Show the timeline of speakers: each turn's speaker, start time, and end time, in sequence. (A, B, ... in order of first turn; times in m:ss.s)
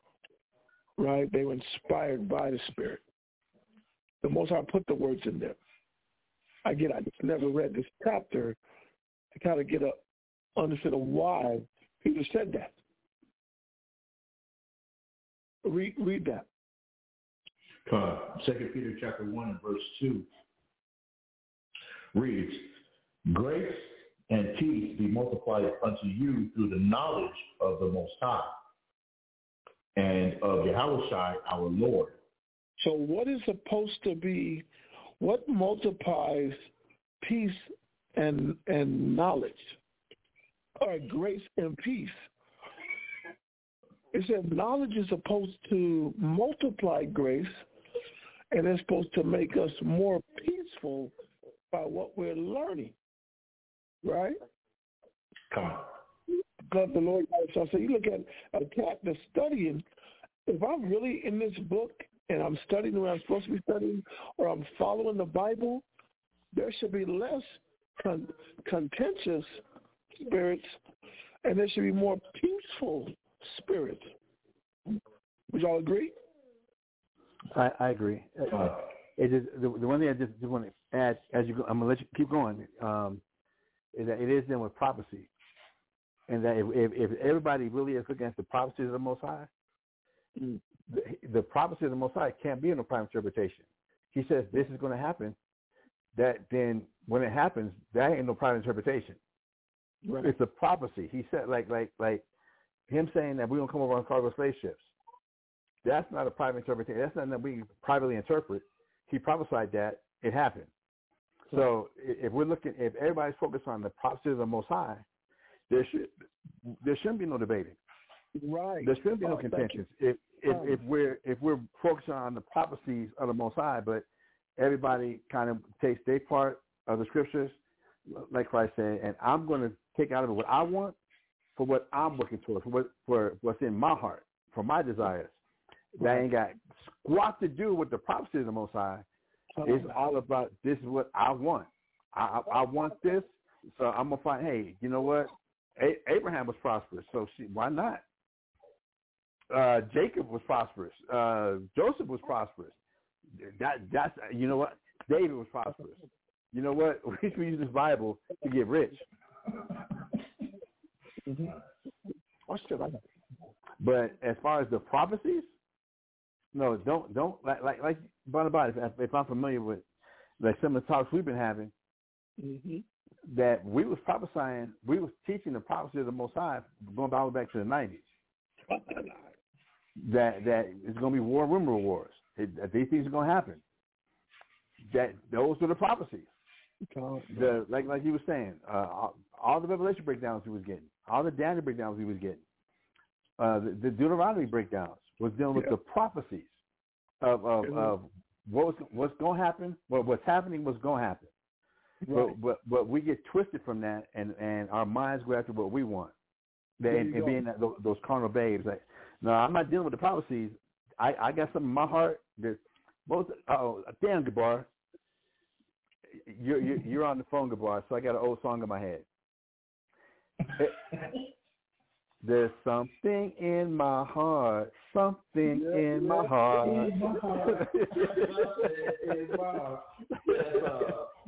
0:01.0-0:03.0 A
0:04.2-0:05.6 A
0:06.6-0:08.6 A
0:09.3-0:10.0 A
0:10.6-0:12.7 A
0:15.6-0:16.5 A
0:17.8-0:20.3 B
0:22.1-0:22.8 B
0:23.3-0:28.6 B
0:30.0-0:32.2 B
0:32.8-0:34.6 A
0:35.2-0:36.6 A
0:37.2-0:39.8 A
0:40.8-0:42.2 A
0:44.1-0:47.6 A
0:48.5-0:51.1 A
0:51.7-0:53.0 A
0:54.0-0:54.4 A
0:55.5-0:55.8 B
0:56.6-0:59.8 A
1:00.5-1:05.8 A
1:06.5-1:09.6 A
1:10.2-1:10.8 A
1:11.4-1:14.1 A
1:15.5-1:16.1 A
1:17.5-1:23.2 C
1:18.5-1:18.8 B
1:23.9-1:25.3 C
1:26.3-1:29.5 C
1:30.9-1:35.4 C
1:36.1-1:39.2 C
1:40.0-1:40.3 A
1:40.2-1:42.2 C
1:42.9-1:44.8 C
1:45.8-1:50.7 C
1:51.5-1:55.0 C
1:55.7-1:56.1 C
1:56.6-1:57.8 C
1:58.3-1:59.8 A
1:58.8-2:04.0 C
2:00.5-2:00.8 A
2:04.6-2:07.6 C
2:08.1-2:11.0 C
2:11.6-2:15.3 C
2:15.9-2:19.0 C
2:16.0-2:16.2 A
2:19.6-2:19.9 A
2:19.6-2:28.0 C
2:29.5-2:32.7 C
2:33.4-2:36.0 C
2:36.5-2:39.0 C
2:41.2-2:41.5 A
2:42.5-2:43.0 A
2:43.8-2:45.5 C
2:46.5-2:49.8 C
2:50.4-2:51.7 C
2:52.4-2:52.8 A
2:53.2-2:58.0 C
2:58.7-2:59.2 A
3:00.0-3:03.6 C
3:04.9-3:06.3 C
3:06.9-3:07.6 A
3:07.3-3:12.4 C
3:13.4-3:16.5 C
3:17.2-3:21.3 C
3:17.6-3:17.9 A
3:22.0-3:22.4 A
3:22.1-3:26.1 C
3:26.8-3:34.7 C
3:26.9-3:27.4 A
3:36.2-3:39.0 C
3:42.2-3:48.7 C
3:45.4-3:47.6 A
3:46.4-3:51.1 B
3:50.3-3:51.0 C